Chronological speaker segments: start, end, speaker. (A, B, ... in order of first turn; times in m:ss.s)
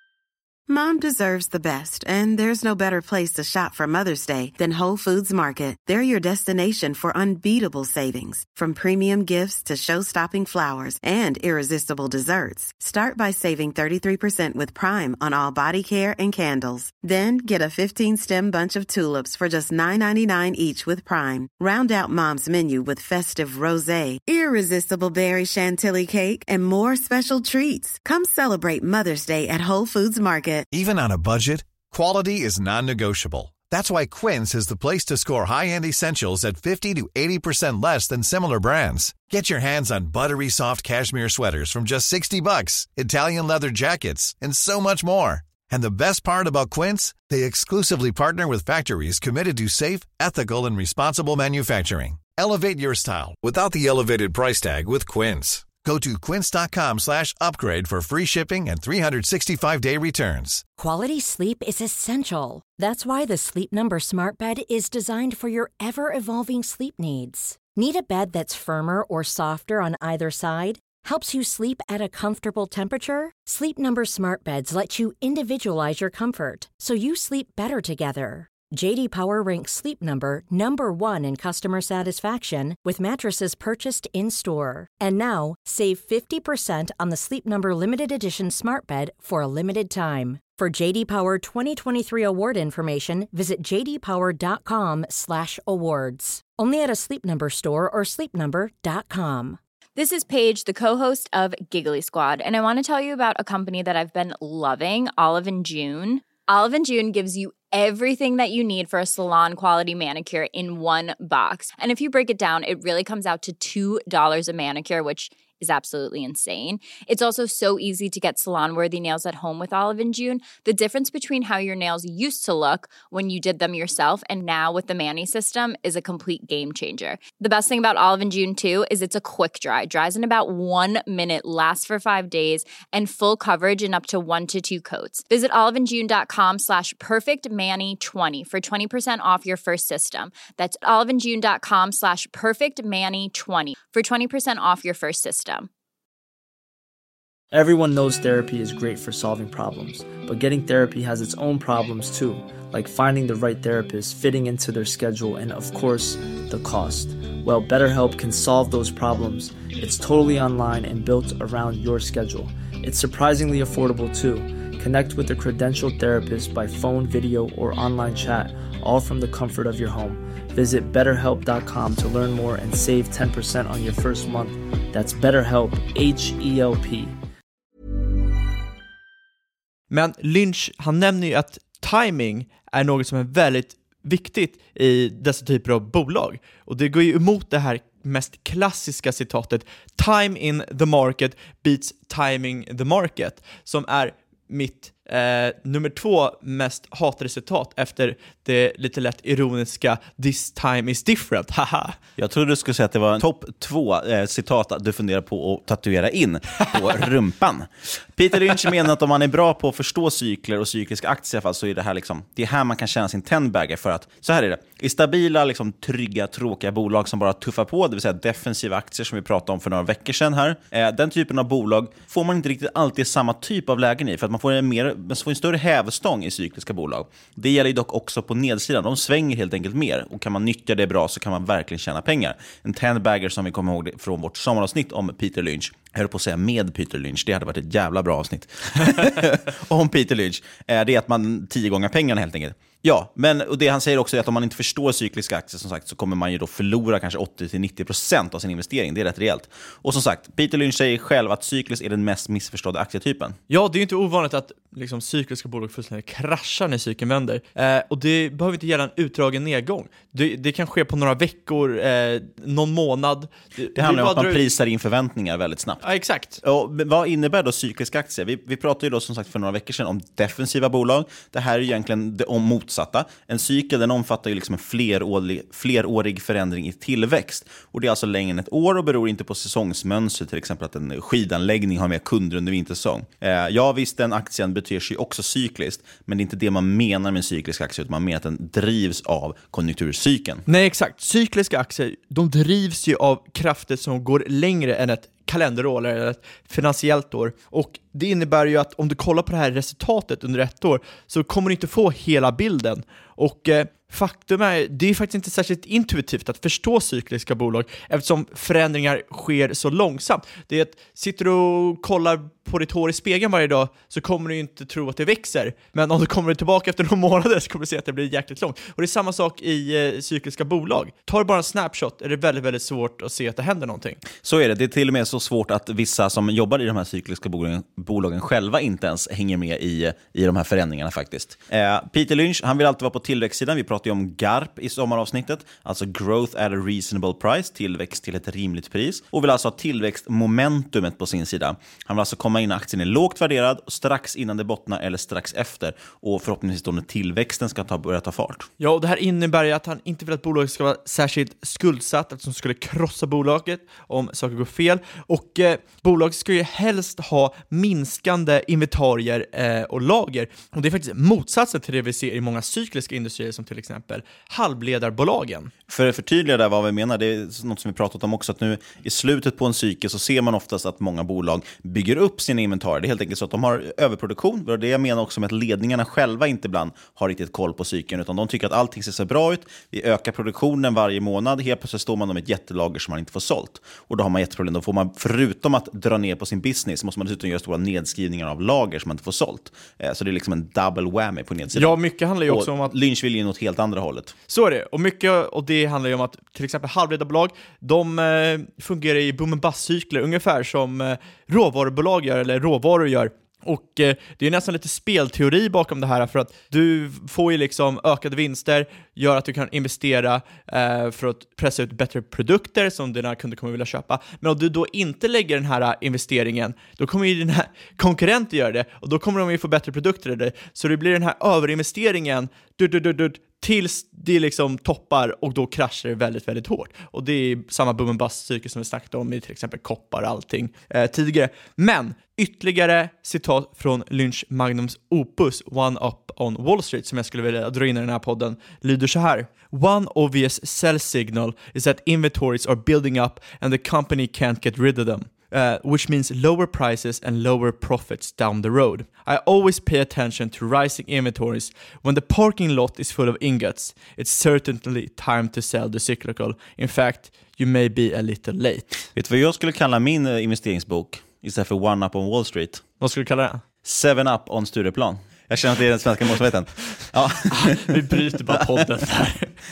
0:00.7-0:30.7 A
0:30.7-1:00.6 B
1:00.8-1:39.6 C
1:40.0-2:25.7 D
2:27.5-2:57.2 E
2:59.9-3:22.0 F
3:22.2-4:13.4 G
4:13.5-4:24.4 F
4:23.8-4:25.9 G
4:25.8-4:26.4 F
4:26.4-4:50.4 G
4:50.5-5:24.0 F
5:24.2-5:48.5 G
5:48.6-6:05.5 F
6:05.7-6:34.1 G
6:31.5-6:32.7 F
6:34.3-7:38.8 F
7:39.0-7:42.7 G
7:42.8-7:43.4 F
7:43.6-7:47.8 G
7:47.3-7:49.3 F